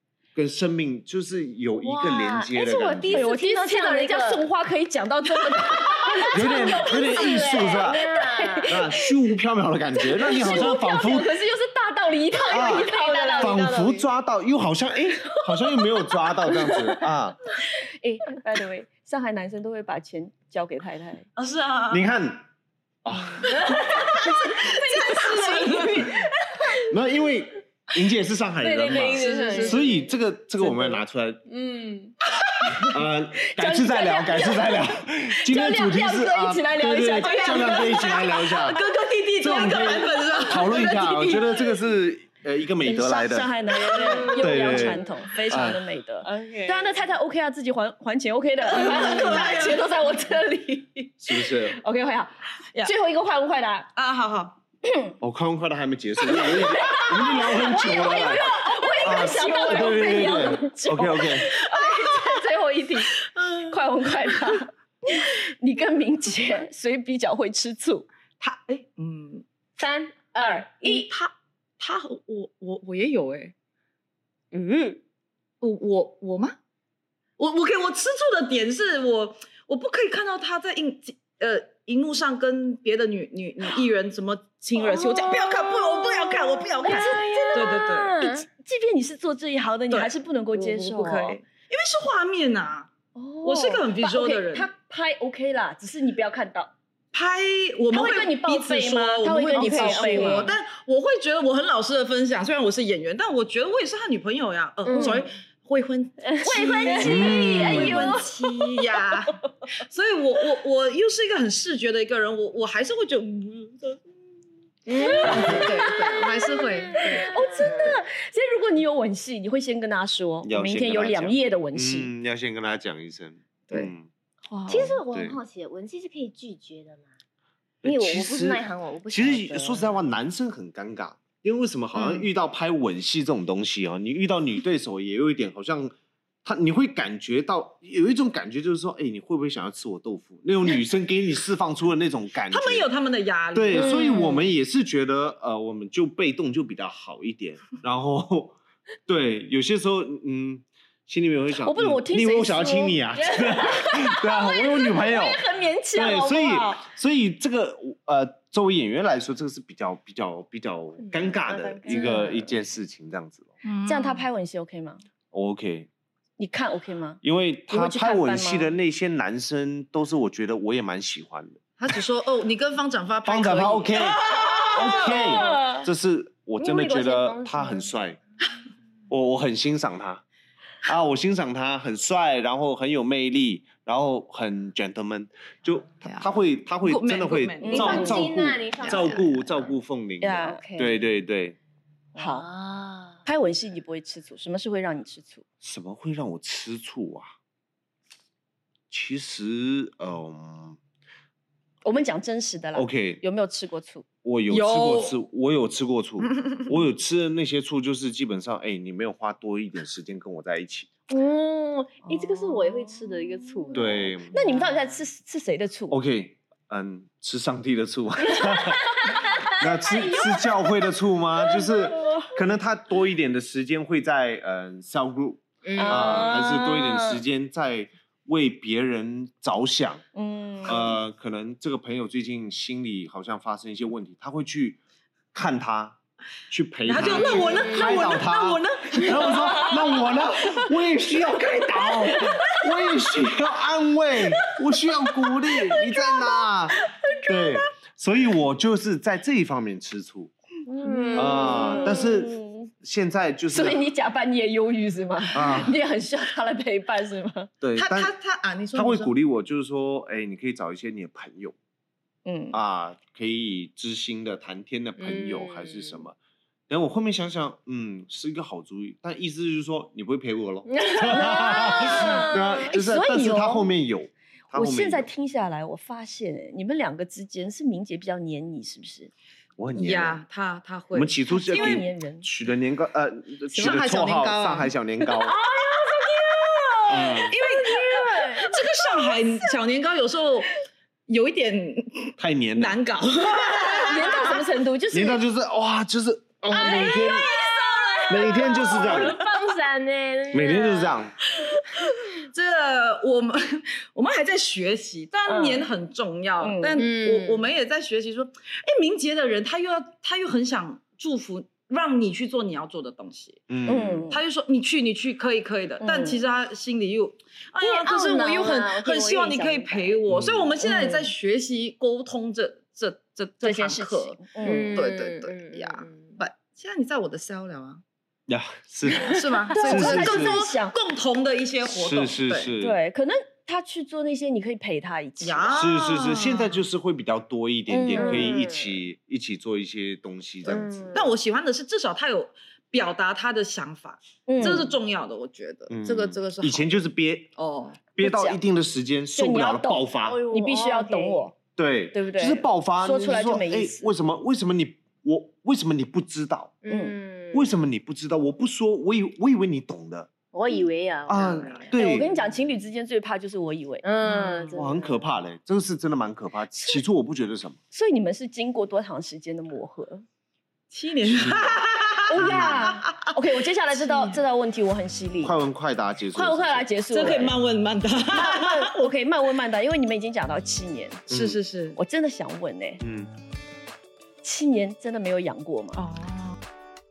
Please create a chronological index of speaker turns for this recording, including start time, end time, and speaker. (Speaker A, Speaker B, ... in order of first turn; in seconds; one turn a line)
Speaker A: 0.3-3.2
Speaker B: 1.8-4.5
Speaker C: 3.1-9.0
Speaker B: 6.2-8.8
Speaker A: 6.3-8.0
Speaker A: 8.7-11.3
Speaker C: 10.1-14.0
Speaker B: 12.5-14.0
Speaker A: 12.5-17.4
Speaker C: 16.4-16.9
Speaker C: 17.6-21.3
Speaker D: 21.4-22.1
Speaker A: 21.9-22.4
Speaker A: 23.0-23.8
Speaker C: 23.4-26.8
Speaker D: 24.2-26.2
Speaker A: 26.9-31.4
Speaker B: 28.6-29.9
Speaker D: 29.1-30.1
Speaker B: 30.6-32.1
Speaker A: 32.8-38.8
Speaker C: 33.4-38.6
Speaker D: 37.4-41.5
Speaker A: 39.4-43.5
Speaker C: 42.8-53.9
Speaker B: 43.9-44.9
Speaker A: 44.3-45.8
Speaker B: 46.2-46.9
Speaker D: 48.7-49.9
Speaker A: 51.2-51.8
Speaker D: 53.9-54.6
Speaker C: 54.8-55.1
Speaker A: 55.2-61.5
Speaker C: 56.4-68.1
Speaker D: 61.7-62.3
Speaker D: 63.3-63.6
Speaker D: 68.4-69.4
Speaker B: 69.8-71.1
Speaker D: 70.8-73.5
Speaker B: 74.5-75.0
Speaker D: 75.6-76.6
Speaker D: 77.4-88.4
Speaker B: 85.2-88.3
Speaker C: 86.8-91.4
Speaker D: 89.9-92.9
Speaker C: 93.1-96.7
Speaker D: 93.4-94.7
Speaker D: 97.1-114.1
Speaker C: 97.9-100.5
Speaker B: 99.5-100.5
Speaker B: 104.8-105.3
Speaker C: 104.9-105.3
Speaker C: 106.4-108.3
Speaker B: 106.8-107.6
Speaker A: 107.0-108.2
Speaker B: 114.9-118.0
Speaker C: 114.9-122.1
Speaker D: 115.0-117.3
Speaker A: 115.2-115.6
Speaker A: 120.4-124.1
Speaker D: 124.5-124.9
Speaker A: 124.7-125.4
Speaker B: 124.7-127.1
Speaker A: 127.8-142.9
Speaker B: 127.8-129.9
Speaker D: 131.9-132.3
Speaker D: 142.5-144.1
Speaker A: 143.5-163.5
Speaker C: 143.8-144.4
Speaker B: 143.9-144.2
Speaker C: 151.6-156.8
Speaker B: 161.1-162.6
Speaker D: 163.6-164.2
Speaker C: 163.8-165.0
Speaker A: 165.3-165.9
Speaker C: 166.4-168.7
Speaker A: 167.2-171.9
Speaker D: 171.8-174.9
Speaker A: 173.2-178.2
Speaker C: 174.2-175.9
Speaker B: 175.1-175.6
Speaker B: 176.6-177.9
Speaker A: 179.1-180.2
Speaker A: 180.8-191.6
Speaker D: 186.8-188.3
Speaker C: 187.6-188.2
Speaker B: 187.7-189.7
Speaker D: 188.8-189.2
Speaker C: 190.2-190.6
Speaker B: 190.6-191.1
Speaker B: 192.1-193.2
Speaker C: 192.2-192.4
Speaker C: 193.2-195.4
Speaker A: 195.6-197.3
Speaker A: 198.9-200.8
Speaker C: 201.8-204.1
Speaker A: 202.7-203.2
Speaker A: 204.2-210.9
Speaker D: 204.5-205.2
Speaker B: 211.1-214.8
Speaker A: 213.7-214.4
Speaker C: 213.7-216.0
Speaker A: 215.9-230.1
Speaker C: 218.2-220.7
Speaker C: 221.4-222.3
Speaker B: 225.6-226.6
Speaker C: 225.7-227.2
Speaker C: 230.1-230.9
Speaker A: 230.6-234.8
Speaker A: 235.3-236.0
Speaker A: 236.5-250.3
Speaker D: 236.8-239.8
Speaker B: 237.0-238.0
Speaker C: 245.5-246.1
Speaker C: 246.8-247.6
Speaker B: 250.7-252.2
Speaker C: 250.8-252.7
Speaker A: 251.1-253.8
Speaker C: 253.5-257.5
Speaker A: 255.3-255.7
Speaker A: 257.6-258.1
Speaker D: 257.8-259.1
Speaker A: 258.7-261.6
Speaker C: 262.2-262.6
Speaker A: 262.5-266.1
Speaker B: 265.0-266.0
Speaker A: 266.7-275.1
Speaker B: 270.8-271.1
Speaker C: 270.8-273.7
Speaker B: 271.7-272.6
Speaker C: 274.5-279.1
Speaker A: 279.6-280.2
Speaker D: 279.7-281.9
Speaker A: 280.9-285.4
Speaker C: 281.3-282.3
Speaker D: 283.5-284.7
Speaker C: 285.3-286.4
Speaker D: 285.9-294.4
Speaker A: 286.9-287.3
Speaker C: 287.0-289.0
Speaker A: 292.2-292.8
Speaker C: 293.5-295.2
Speaker A: 294.9-297.3
Speaker B: 296.5-301.0
Speaker D: 296.6-298.8
Speaker C: 296.7-297.1
Speaker A: 298.1-299.2
Speaker A: 300.3-301.2
Speaker D: 302.1-313.5
Speaker C: 305.3-305.6
Speaker C: 306.4-306.8
Speaker B: 306.8-307.5
Speaker A: 313.5-314.0
Speaker C: 313.6-314.2
Speaker D: 314.1-327.8
Speaker C: 315.8-316.2
Speaker B: 317.6-319.8
Speaker C: 318.1-318.4
Speaker C: 319.1-319.8
Speaker A: 320.1-320.5
Speaker C: 320.6-321.1
Speaker C: 323.4-324.9
Speaker B: 324.4-326.2
Speaker A: 328.3-330.4
Speaker D: 329.0-332.5
Speaker C: 329.5-330.7
Speaker A: 331.6-332.8
Speaker C: 332.6-335.6
Speaker D: 335.2-336.6
Speaker A: 335.5-340.9
Speaker C: 337.7-338.3
Speaker B: 337.9-338.8
Speaker B: 340.4-341.1
Speaker D: 340.9-346.8
Speaker C: 344.3-344.7
Speaker A: 345.7-347.3
Speaker D: 347.4-347.8
Speaker A: 347.9-350.2
Speaker C: 348.0-348.4
Speaker C: 349.1-351.4
Speaker B: 350.0-351.3
Speaker A: 351.6-356.5
Speaker C: 351.9-353.9
Speaker B: 356.6-357.6
Speaker C: 356.7-356.9
Speaker A: 357.3-360.1
Speaker B: 360.3-362.1
Speaker A: 361.1-362.1
Speaker D: 361.1-361.8
Speaker C: 361.7-363.8
Speaker B: 363.8-365.1
Speaker D: 364.0-364.7
Speaker A: 364.5-367.6
Speaker C: 367.7-370.0
Speaker D: 370.7-373.1
Speaker A: 371.1-371.5
Speaker C: 372.1-375.4
Speaker A: 372.2-372.5
Speaker D: 373.7-374.2
Speaker A: 375.2-376.7
Speaker C: 376.1-377.4
Speaker D: 376.9-378.9
Speaker C: 378.1-381.0
Speaker A: 381.1-381.4
Speaker D: 381.1-381.8
Speaker C: 381.8-382.8
Speaker A: 382.8-383.1
Speaker C: 384.2-385.8
Speaker D: 385.7-386.4